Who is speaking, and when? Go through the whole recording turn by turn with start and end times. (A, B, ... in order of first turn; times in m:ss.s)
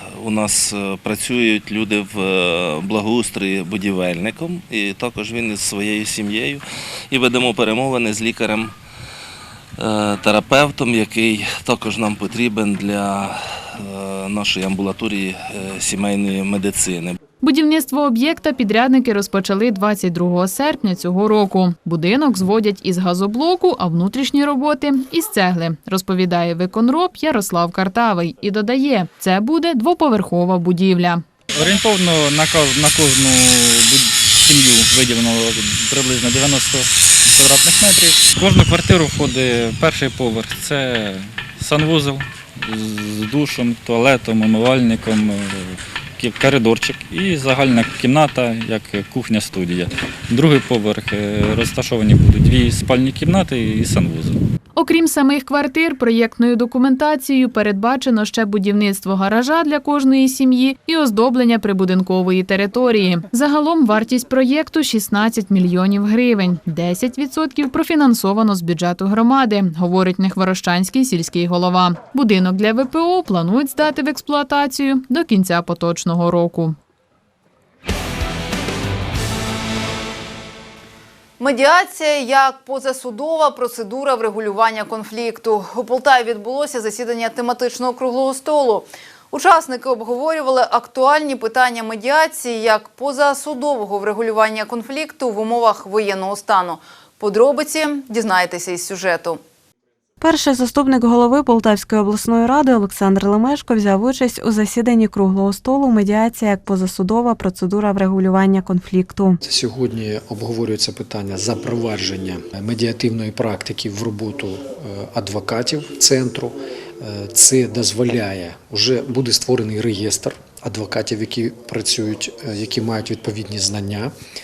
0:00.2-0:08.7 A
0:09.8-0:17.2 A
0:17.4-0:31.2 B
0:31.5-0:42.1 C
0:42.7-0:45.5 C
0:46.2-0:54.4 C
0:54.8-1:16.8 B
1:21.4-1:39.4 D
1:40.2-1:49.4 E
1:49.4-2:04.1 F